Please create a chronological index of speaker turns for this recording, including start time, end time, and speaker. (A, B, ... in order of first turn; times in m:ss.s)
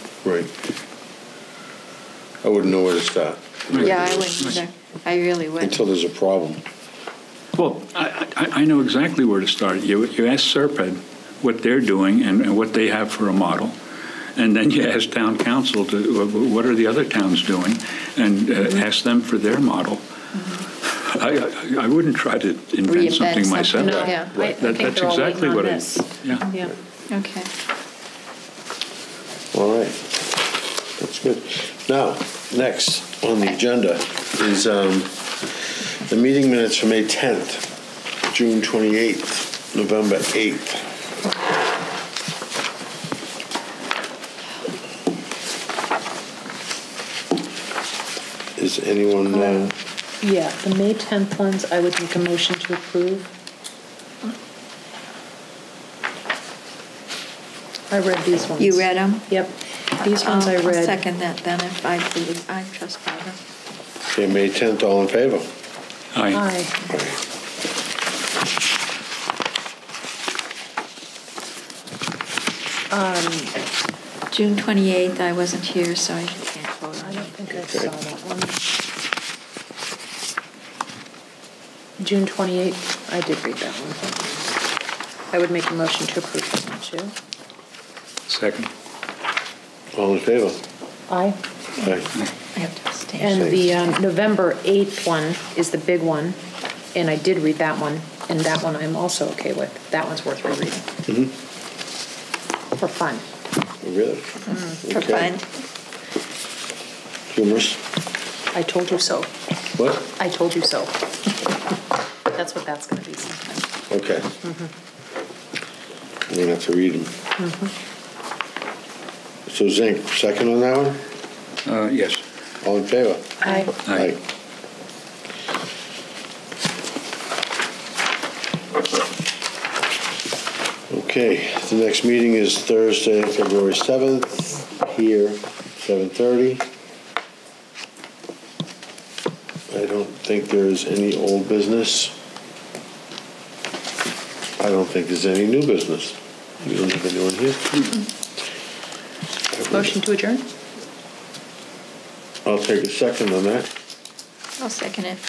0:00.2-0:00.5 A
0:02.4-0:03.9 A
0:03.7-0:04.6 B
0:03.7-0:05.8 C
0:05.6-0:06.6 A
0:07.6-0:13.8 B
0:14.4-0:20.0 B
0:20.8-0:26.5 B
0:22.9-0:24.3 C
0:23.7-0:26.7 D
0:27.1-0:27.5 C
0:29.5-0:30.4 A
0:31.0-0:35.2 A
0:36.0-0:37.7 A
0:38.3-0:40.9 A
0:48.6-0:49.8 A
0:49.3-0:53.3 D
0:57.9-1:01.0 D
0:58.6-0:59.3 C
1:00.0-1:03.4 C
1:04.1-1:05.5 A
1:06.1-1:06.4 B
1:06.3-1:06.8 D
1:06.9-1:07.2 A
1:12.9-1:13.6 D
1:14.3-1:17.3 C
1:17.0-1:18.6 D
1:17.5-1:17.9 A
1:22.0-1:24.4 D
1:25.3-1:27.1 D
1:28.3-1:28.7 B
1:29.9-1:30.6 A
1:31.1-1:31.4 D
1:31.8-1:32.1 A
1:32.6-1:33.4 C
1:33.2-1:36.4 D
1:33.3-1:33.7 A
1:36.9-1:40.9 D
1:41.1-1:41.3 A
1:42.8-1:43.3 D
1:43.8-1:45.4 A
1:44.5-1:45.5 C
1:47.3-1:47.8 A
1:48.5-1:49.3 D
1:49.8-1:50.1 A
1:50.0-1:51.1 D
1:52.3-1:53.6 D
1:53.9-1:54.4 A
1:54.4-1:54.7 D
1:56.3-1:57.1 A
1:57.4-1:57.7 D
1:59.5-2:01.0 A
2:01.6-2:02.2 B
2:02.6-2:04.2 A
2:03.4-2:03.7 D
2:03.9-2:04.2 B
2:10.9-2:16.7 A
2:19.7-2:22.2 A
2:24.6-2:28.0 A
2:29.6-2:29.9 A
2:29.7-2:30.5 D
2:32.4-2:33.7 A
2:34.6-2:35.2 C